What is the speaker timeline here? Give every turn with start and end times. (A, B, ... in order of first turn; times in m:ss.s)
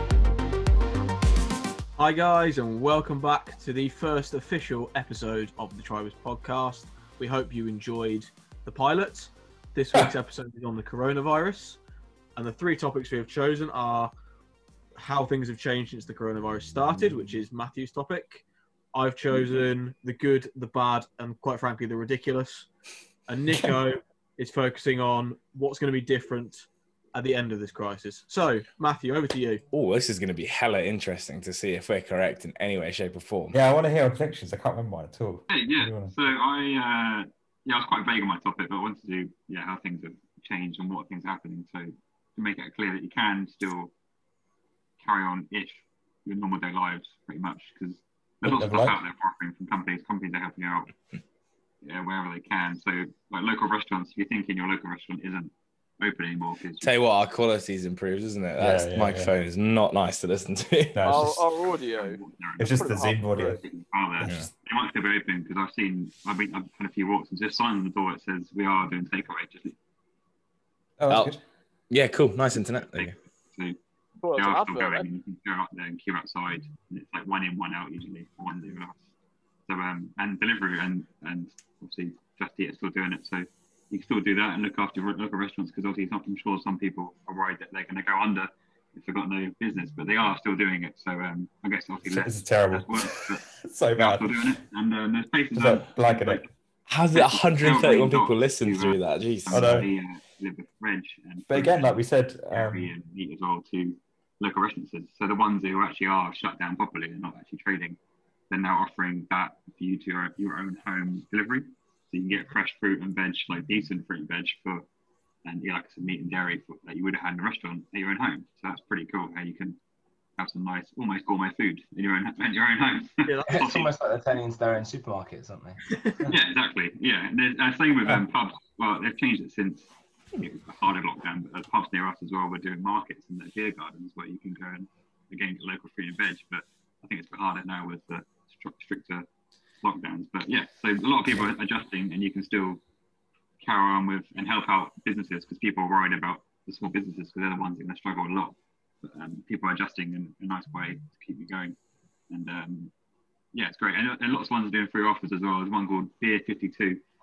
0:02.0-0:11.8 A
0:12.4-0:14.1 A
0:15.0-0:18.4 A
0:18.9-0:22.7 A
0:23.3-0:29.6 A
0:23.5-0:23.8 B
0:29.7-0:33.6 C
0:33.5-0:36.2 B
0:35.5-0:43.9 D
0:45.0-0:50.9 D
0:48.4-0:49.0 B
0:51.8-0:56.9 D
0:56.8-1:01.0 C
0:58.6-0:59.3 B
1:00.9-1:01.4 B
1:01.0-1:03.5 E
1:02.0-1:09.8 D
1:02.6-1:03.6 B
1:04.2-1:04.4 B
1:11.0-1:11.4 B
1:11.9-1:13.1 C
1:12.7-1:13.8 D
1:14.2-1:15.1 E
1:14.3-1:19.0 D
1:19.7-1:33.4 D
1:32.0-1:34.5 B
1:34.0-1:36.5 D
1:35.5-1:36.4 B
1:36.9-1:39.8 C
1:37.1-1:41.8 D
1:39.5-1:39.9 B
1:41.5-1:42.9 B
1:42.5-1:48.0 D
1:48.5-1:54.8 D
1:55.4-1:59.8 D
2:00.4-2:03.9 D
2:03.3-2:03.6 A
2:03.5-2:06.3 F
2:06.3-2:19.2 D
2:19.8-2:22.8 D
2:23.6-2:31.8 D
2:32.3-2:32.9 D
2:33.5-2:37.0 D